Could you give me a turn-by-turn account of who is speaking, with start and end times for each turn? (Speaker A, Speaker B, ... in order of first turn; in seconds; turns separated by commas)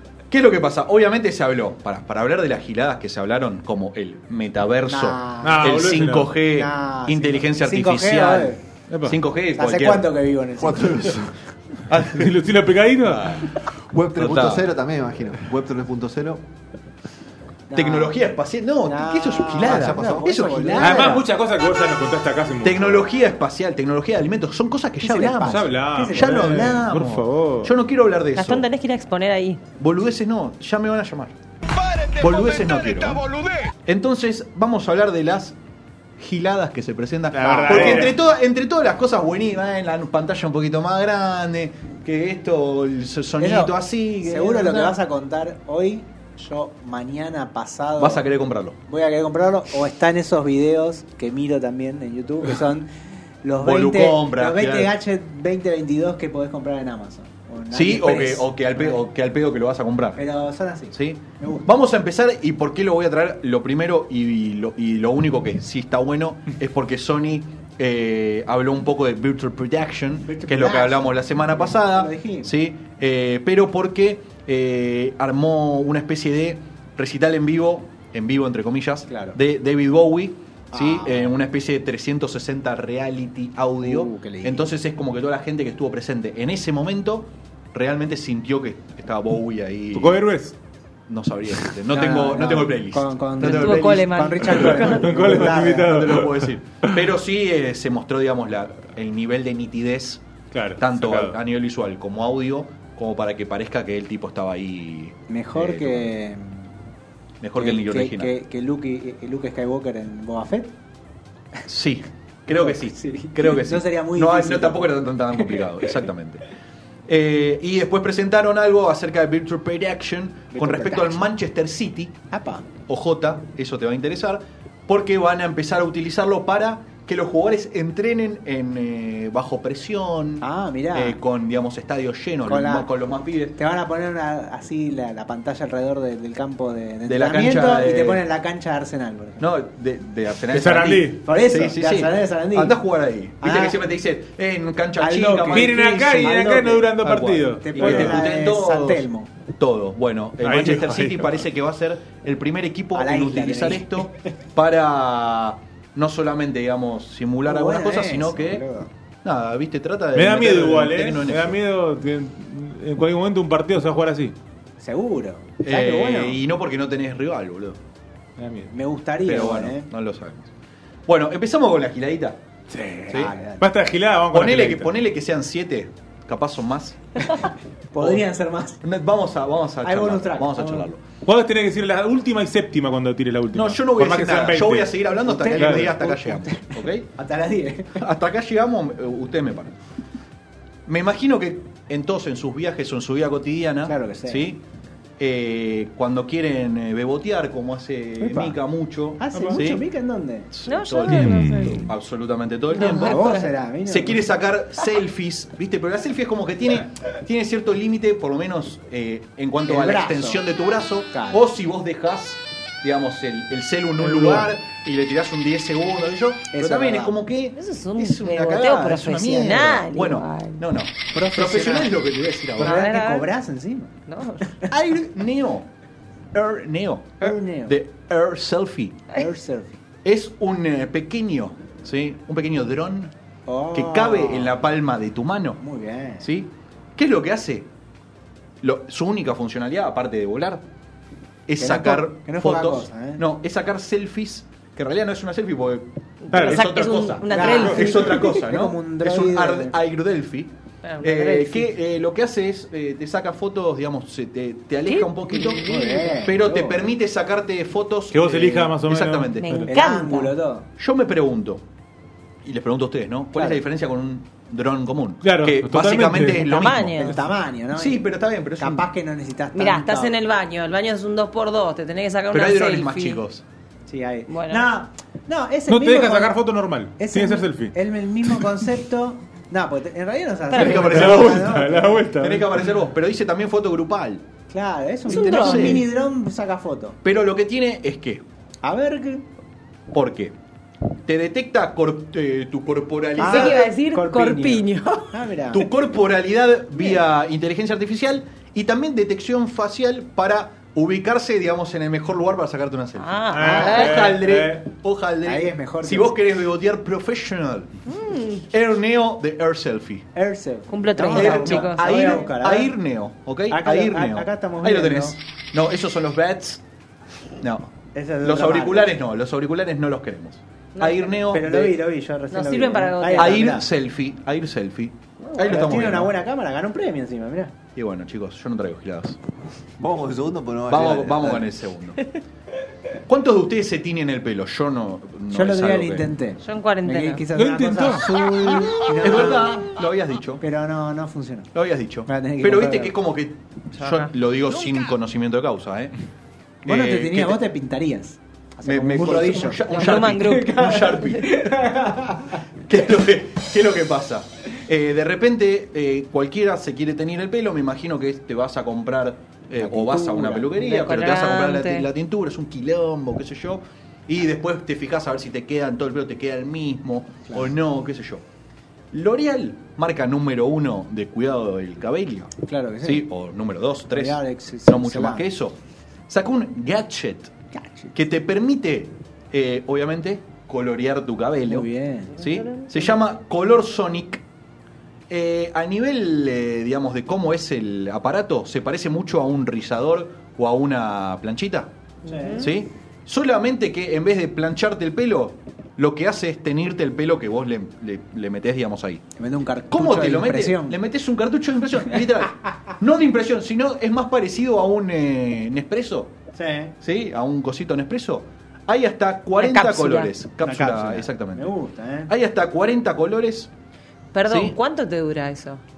Speaker A: 0.3-10.1, Speaker B: 4.9-5.7, Speaker C: 5.4-6.3, Speaker B: 6.5-8.6, Speaker C: 8.9-9.2, Speaker B: 9.6-11.2, Speaker D: 10.6-11.4, Speaker A: 11.9-12.3, Speaker C: 12.1-13.6, Speaker D: 13.8-16.4, Speaker A: 14.2-14.7, Speaker B: 17.7-18.2, Speaker A: 17.7-21.1, Speaker B: 18.9-21.3, Speaker D: 19.6-20.4, Speaker C: 20.8-23.1, Speaker A: 22.6-28.7, Speaker B: 25.0-26.9, Speaker C: 25.4-27.7, Speaker E: 28.4-29.6, Speaker A: 29.8-31.3, Speaker A: 32.1-33.3, Speaker A: 33.9-35.5, Speaker A: 36.2-45.0, Speaker C: 37.3-38.2, Speaker B: 37.4-38.1, Speaker B: 43.4-48.3, Speaker A: 48.0-48.8, Speaker B: 48.9-52.9, Speaker B: 53.4-59.0, Speaker A: 53.6-54.9, Speaker A: 57.7-60.2, Speaker B: 60.2-61.7, Speaker A: 60.9-90.2, Speaker B: 70.2-71.2, Speaker B: 71.7-72.5, Speaker B: 79.1-79.4, Speaker B: 80.7-81.4, Speaker B: 83.8-84.7, Speaker C: 89.9-90.6, Speaker A: 91.1-94.7, Speaker B: 91.9-95.9, Speaker E: 93.5-95.1, Speaker C: 94.4-97.0, Speaker A: 95.9-100.2, Speaker C: 100.5-101.4, Speaker A: 100.8-106.1, Speaker B: 105.3-106.7, Speaker A: 107.4-108.3, Speaker B: 107.6-110.7, Speaker A: 111.7-116.4, Speaker B: 112.5-115.7, Speaker A: 117.1-122.1, Speaker B: 120.5-121.2, Speaker B: 122.3-122.7, Speaker A: 122.9-133.6, Speaker B: 130.4-131.2, Speaker B: 132.4-132.9, Speaker B: 133.6-139.4, Speaker A: 137.1-138.2, Speaker A: 139.4-146.4, Speaker C: 140.5-141.3, Speaker B: 141.2-142.8, Speaker B: 143.4-143.8, Speaker B: 145.0-146.9, Speaker C: 145.3-148.3, Speaker A: 147.0-158.6, Speaker B: 147.6-149.3, Speaker C: 150.4-151.4, Speaker B: 152.9-154.2, Speaker B: 157.4-158.9, Speaker A: 159.2-161.6, Speaker C: 160.1-164.3, Speaker B: 164.8-166.4, Speaker A: 165.6-167.8, Speaker C: 168.4-168.7, Speaker B: 168.7-169.9, Speaker A: 169.2-170.5, Speaker A: 171.1-172.4, Speaker C: 172.7-174.9, Speaker B: 173.1-173.7, Speaker A: 173.1-173.3, Speaker A: 174.3-177.0, Speaker B: 177.9-178.8, Speaker A: 178.0-178.2, Speaker A: 178.8-181.0, Speaker B: 179.8-180.9, Speaker C: 181.2-185.9, Speaker A: 183.5-187.1, Speaker B: 185.2-188.0, Speaker A: 188.0-189.8, Speaker A: 190.9-194.6, Speaker B: 193.8-194.5, Speaker A: 195.2-199.8, Speaker B: 198.2-198.6, Speaker B: 199.2-200.5, Speaker C: 199.3-199.6, Speaker A: 200.5-203.3, Speaker E: 200.7-201.8, Speaker C: 201.1-201.8, Speaker E: 202.7-203.5, Speaker B: 202.7-204.3, Speaker A: 203.8-222.8, Speaker B: 209.6-210.4, Speaker B: 211.1-211.4, Speaker B: 216.5-217.2, Speaker E: 217.5-220.6, Speaker B: 221.1-221.9, Speaker E: 222.6-223.3, Speaker B: 222.6-224.7, Speaker E: 224.1-224.6, Speaker A: 224.7-225.7, Speaker A: 226.3-229.1, Speaker B: 227.2-227.8, Speaker B: 229.2-229.8, Speaker A: 230.0-233.1, Speaker B: 233.5-234.5, Speaker A: 233.7-235.6, Speaker B: 235.6-236.3, Speaker A: 236.2-237.7, Speaker A: 238.6-240.6, Speaker A: 241.5-245.9, Speaker B: 241.6-243.2, Speaker E: 246.2-248.4, Speaker C: 246.3-246.7, Speaker A: 246.5-255.6, Speaker B: 247.3-249.8, Speaker C: 247.5-248.1, Speaker E: 250.8-251.7, Speaker E: 254.8-256.3, Speaker B: 255.6-256.9, Speaker A: 256.3-259.5, Speaker C: 258.1-259.7, Speaker E: 259.4-260.3, Speaker B: 259.7-260.7, Speaker A: 260.8-261.6, Speaker A: 262.4-267.1, Speaker B: 263.3-263.6, Speaker C: 265.2-267.3, Speaker E: 266.2-267.1, Speaker B: 267.0-268.1, Speaker A: 267.7-268.9, Speaker B: 268.6-270.2, Speaker E: 269.5-273.2, Speaker A: 272.3-273.4, Speaker B: 273.9-276.4, Speaker E: 274.3-274.7, Speaker C: 275.7-278.4, Speaker B: 277.0-282.1, Speaker E: 280.5-280.9, Speaker A: 280.6-281.5, Speaker C: 280.8-282.6, Speaker A: 282.2-284.2, Speaker B: 284.5-287.0, Speaker A: 285.1-285.9, Speaker E: 285.1-285.9, Speaker A: 287.0-288.2, Speaker B: 288.6-289.2, Speaker A: 289.9-290.4, Speaker A: 291.1-293.6, Speaker E: 293.1-295.2, Speaker B: 293.2-295.7, Speaker A: 295.5-307.7, Speaker E: 303.0-304.0, Speaker C: 303.3-304.6, Speaker B: 305.2-306.1, Speaker E: 307.9-308.5, Speaker A: 308.5-310.1, Speaker B: 310.1-312.8, Speaker E: 310.7-312.2, Speaker A: 311.1-316.6, Speaker B: 313.5-315.2, Speaker A: 317.4-321.8, Speaker B: 317.9-319.0, Speaker E: 320.8-321.2, Speaker B: 321.3-323.7, Speaker E: 322.3-323.6, Speaker A: 323.1-326.1, Speaker E: 325.3-325.6, Speaker B: 325.4-327.5, Speaker A: 327.8-329.2, Speaker D: 329.8-331.5, Speaker A: 330.7-332.1, Speaker A: 333.1-336.1, Speaker B: 335.3-339.6, Speaker E: 336.4-337.3, Speaker C: 337.3-338.1, Speaker A: 339.0-340.4, Speaker B: 340.4-341.5, Speaker A: 341.5-345.9, Speaker B: 342.1-342.9, Speaker E: 343.8-344.1, Speaker A: 346.6-347.4, Speaker B: 346.7-352.4, Speaker A: 348.6-351.3, Speaker E: 349.5-351.4, Speaker A: 352.7-368.2, Speaker B: 359.6-360.7, Speaker E: 360.6-361.9, Speaker A: 368.9-372.3, Speaker B: 372.5-373.1, Speaker A: 372.8-375.6, Speaker B: 373.9-375.3, Speaker A: 376.1-377.3, Speaker B: 377.5-377.9, Speaker A: 377.9-381.7, Speaker B: 381.5-382.1, Speaker E: 382.2-383.1, Speaker A: 382.2-384.2, Speaker A: 385.1-391.7, Speaker E: 392.0-392.6, Speaker B: 392.1-392.5, Speaker A: 392.4-399.0, Speaker B: 399.2-400.8, Speaker A: 399.7-406.1, Speaker B: 406.3-406.7, Speaker A: 406.8-411.6, Speaker E: 409.4-410.1, Speaker B: 410.4-412.1, Speaker A: 412.1-413.5, Speaker E: 414.1-415.6, Speaker A: 414.3-414.6